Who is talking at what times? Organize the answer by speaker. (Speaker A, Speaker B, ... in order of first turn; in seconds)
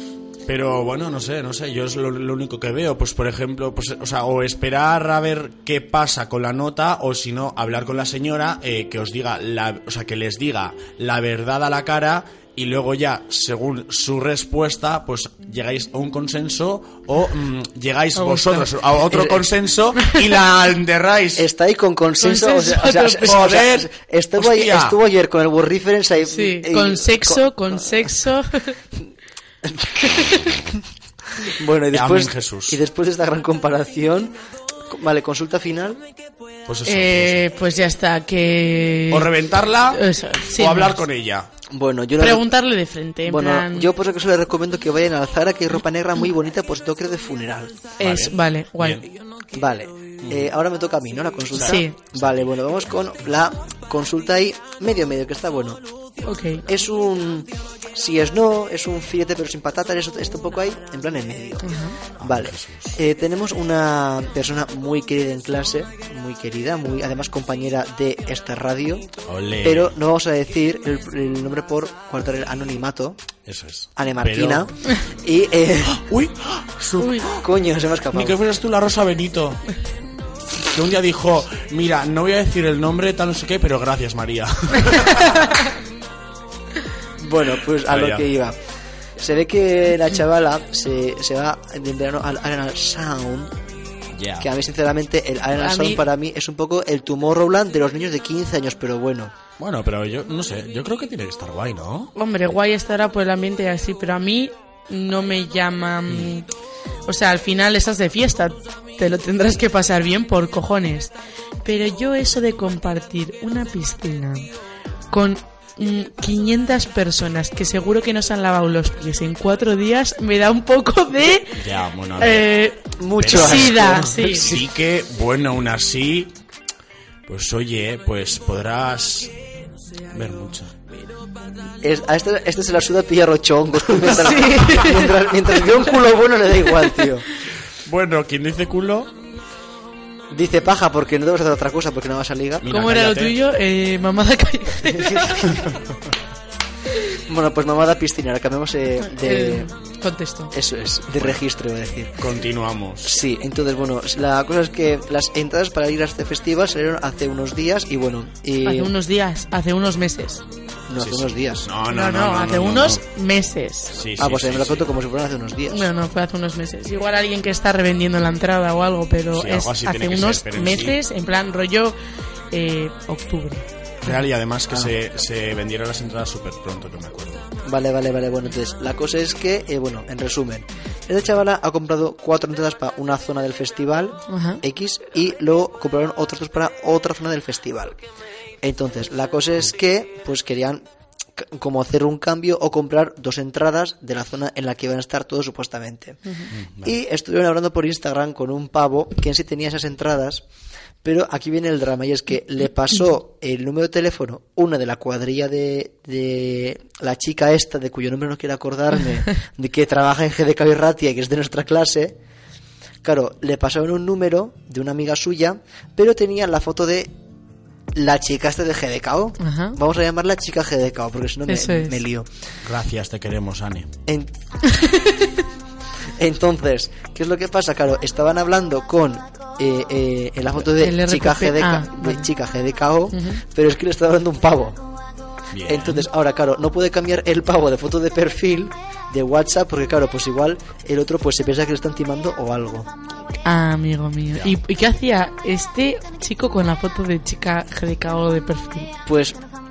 Speaker A: 0.5-21.5, 23.1-25.0, 31.9-32.8, 36.7-37.5, 39.1-41.5, 48.0-49.0, 50.2-50.5, 51.5-52.5, 62.2-63.0, 69.2-69.9, 73.5-74.7, 75.8-77.4, 78.1-79.7, 80.6-85.7, 87.8-88.3, 94.1-94.5, 99.6-102.1, 121.5-122.5, 123.2-126.3, 127.3-129.3, 130.1-130.7, 137.8-139.1, 142.6-143.3, 152.2-153.2, 161.0-163.0, 163.9-164.9, 169.3-171.0, 174.0-177.4, 196.5-196.9, 222.6-223.9, 235.5-236.1
Speaker B: 18.1-18.7, 22.2-23.4, 26.2-28.8, 30.0-30.5, 36.9-39.3, 39.9-41.0, 42.2-43.9, 48.0-49.0, 51.6-52.0, 56.2-56.6, 61.6-62.0, 77.0-77.3, 84.9-85.5, 95.6-96.0, 102.1-106.5, 107.0-114.5, 115.1-121.6, 122.2-124.6, 134.1-135.3, 142.7-145.6, 149.0-150.5, 158.6-160.4, 161.9-163.9, 165.7-171.9, 172.5-174.2, 184.3-184.6, 219.4-219.8, 221.5-222.0, 224.7-225.4, 230.6-232.2, 233.1-233.4, 243.4-248.9
Speaker C: 19.1-19.4, 21.4-28.1, 29.6-30.2, 31.4-34.4, 34.9-36.0, 41.7-42.5, 43.2-47.9, 49.5-55.8, 56.6-73.2, 74.0-76.0, 77.3-78.4, 87.2-88.6, 89.2-93.5, 94.4-99.3, 123.0-124.6, 131.8-137.2, 140.3-142.7, 144.9-145.4, 147.2-149.7, 150.5-152.3, 153.0-158.9, 160.9-161.7, 164.2-165.9, 177.6-187.9, 188.6-190.8, 191.3-196.2, 196.8-200.4, 201.0-212.2, 213.0-217.1, 217.9-222.3, 224.1-224.3, 226.1-234.8, 235.6-242.9, 249.1-249.4